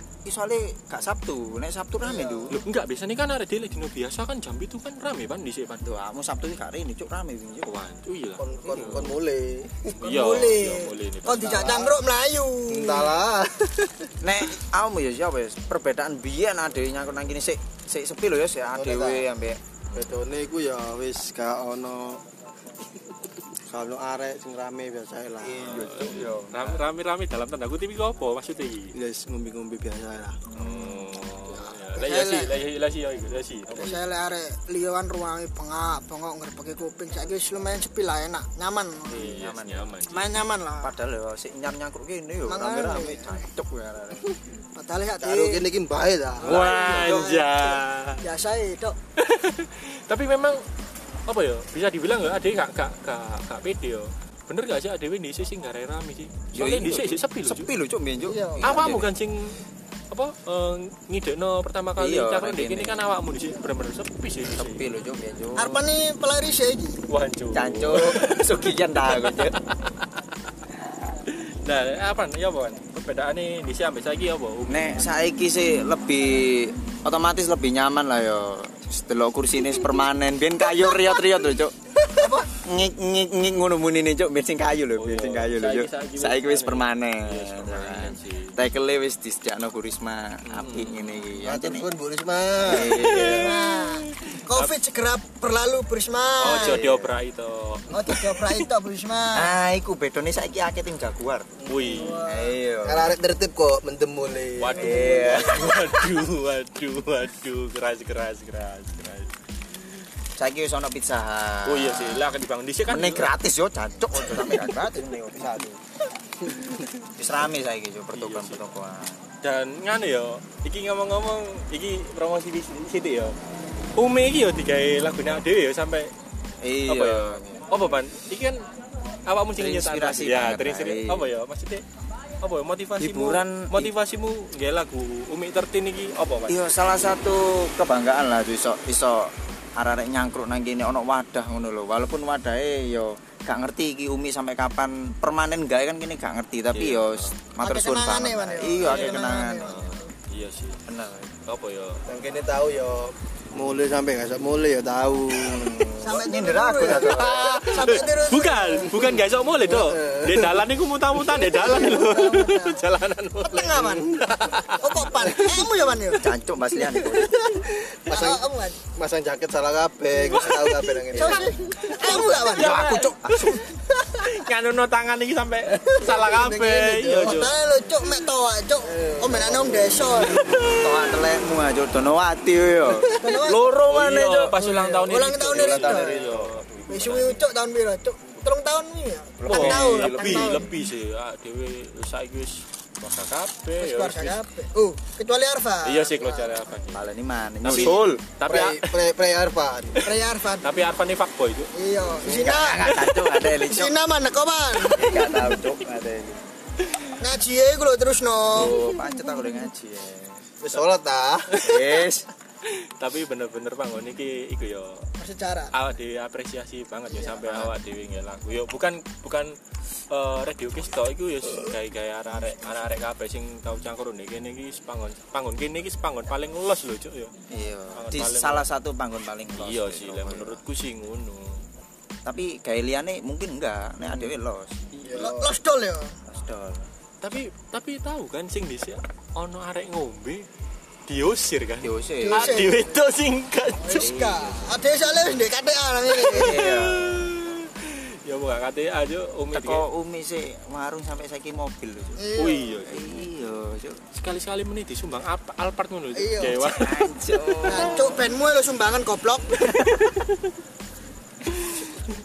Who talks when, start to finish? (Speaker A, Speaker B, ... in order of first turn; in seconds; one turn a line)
Speaker A: 0.2-2.6
Speaker B: 2.0-2.6
Speaker C: 2.5-5.8
Speaker A: 5.8-7.7
Speaker C: 7.6-9.2
Speaker D: 8.4-10.1
Speaker A: 8.7-9.2
Speaker C: 10.0-11.7
Speaker B: 10.0-13.2
Speaker D: 11.4-11.9
Speaker D: 12.8-14.1
Speaker A: 14.2-19.6
Speaker D: 18.8-19.2
Speaker C: 19.9-20.1
Speaker D: 19.9-22.2
Speaker D: 23.7-25.7
Speaker A: 25.4-26.8
Speaker C: 25.6-29.0
Speaker D: 28.9-30.4
Speaker A: 30.5-31.1
Speaker C: 30.6-34.1
Speaker B: 31.6-32.6
Speaker B: 33.7-39.3
Speaker A: 39.1-39.9
Speaker C: 39.1-40.3
Speaker B: 40.1-41.0
Speaker A: 40.8-44.3
Speaker B: 42.5-43.5
Speaker B: 44.7-45.6
Speaker D: 45.2-46.7
Speaker C: 46.4-48.2
Speaker A: 46.5-47.0
Speaker B: 46.5-49.0
Speaker C: 49.2-50.6
Speaker C: 51.3-57.7
Speaker A: 56.5-59.1
Speaker B: 58.2-58.9
Speaker C: 58.6-64.9
Speaker A: 62.0-63.1
Speaker A: 64.5-65.8
Speaker B: 65.6-67.0
Speaker C: 67.1-70.0
Speaker A: 67.5-69.6
Speaker C: 71.3-75.1
Speaker A: 74.7-81.7
Speaker B: 82.1-82.5
Speaker A: 82.4-91.9
Speaker C: 85.0-88.5
Speaker C: 90.5-91.3
Speaker D: 91.4-93.0
Speaker A: 92.6-93.5
Speaker C: 92.7-94.8
Speaker B: 93.1-96.8
Speaker C: 96.4-97.9
Speaker A: 96.4-97.1
Speaker B: 97.9-99.6
Speaker A: 99.3-101.5
Speaker D: 101.7-102.0
Speaker C: 101.7-102.2
Speaker B: 101.9-102.6
Speaker A: 102.2-103.1
Speaker D: 102.8-104.8
Speaker C: 104.6-109.3
Speaker B: 104.7-105.4
Speaker A: 104.8-105.7
Speaker A: 110.4-112.3
Speaker C: 111.7-113.3
Speaker A: 112.9-115.8
Speaker C: 116.5-116.8
Speaker A: 117.2-119.3
Speaker C: 118.1-118.6
Speaker C: 119.4-123.4
Speaker C: 124.0-126.1
Speaker A: 126.6-127.7
Speaker C: 126.9-128.7
Speaker C: 129.3-131.8
Speaker A: 129.6-131.3
Speaker C: 132.4-136.6
Speaker A: 133.0-133.9
Speaker A: 136.5-149.8
Speaker C: 146.7-147.3
Speaker B: 147.6-150.1
Speaker C: 148.8-150.8
Speaker A: 150.9-151.3
Speaker C: 151.5-152.0
Speaker D: 152.1-156.0
Speaker B: 156.0-159.2
Speaker A: 156.1-157.6
Speaker C: 156.9-165.5
Speaker D: 159.8-160.5
Speaker B: 161.2-162.9
Speaker B: 163.4-166.3
Speaker D: 163.8-164.2
Speaker D: 165.2-165.5
Speaker A: 166.2-167.4
Speaker D: 166.8-172.4
Speaker B: 168.1-168.8
Speaker B: 170.2-170.4
Speaker C: 170.2-171.3
Speaker B: 171.1-172.8
Speaker A: 172.4-173.6
Speaker C: 172.4-177.6
Speaker D: 175.9-176.6
Speaker B: 176.3-180.4
Speaker D: 178.8-180.6
Speaker C: 180.3-181.2
Speaker A: 180.7-184.6
Speaker D: 182.9-183.3
Speaker B: 183.2-183.7
Speaker C: 183.5-187.4
Speaker B: 184.6-186.3
Speaker A: 185.4-186.6
Speaker B: 186.9-190.7
Speaker A: 189.4-190.7
Speaker C: 189.4-194.4
Speaker B: 193.8-196.8
Speaker C: 195.8-197.1
Speaker A: 196.9-198.2
Speaker C: 197.6-199.0
Speaker D: 197.7-200.2
Speaker C: 199.9-201.7
Speaker B: 200.0-200.9
Speaker B: 201.7-205.4
Speaker A: 202.2-203.9
Speaker A: 204.9-206.4
Speaker B: 207.2-209.0
Speaker A: 208.5-210.4
Speaker D: 210.6-211.6
Speaker C: 211.5-211.9
Speaker A: 211.6-212.3
Speaker C: 212.6-215.1
Speaker B: 215.2-215.7
Speaker C: 215.7-219.6
Speaker A: 217.4-217.7
Speaker C: 220.1-227.3
Speaker A: 227.5-230.6
Speaker C: 227.9-228.7
Speaker C: 229.6-231.6
Speaker A: 232.2-234.8
Speaker C: 234.9-235.3
Speaker B: 235.2-236.2
Speaker D: 235.2-235.5
Speaker A: 236.3-236.9
Speaker C: 237.2-240.5
Speaker C: 241.1-244.2
Speaker A: 241.8-242.6
Speaker B: 242.2-243.0
Speaker B: 243.8-246.5
Speaker A: 243.9-244.7
Speaker A: 246.1-247.5
Speaker C: 246.3-249.8
Speaker A: 249.5-252.2
Speaker B: 252.2-252.8
Speaker C: 252.4-253.3
Speaker A: 252.8-254.0
Speaker C: 254.1-257.8
Speaker B: 256.1-256.7
Speaker A: 256.6-258.2
Speaker B: 257.6-259.6
Speaker A: 259.6-259.9
Speaker C: 259.9-260.5
Speaker C: 261.5-261.8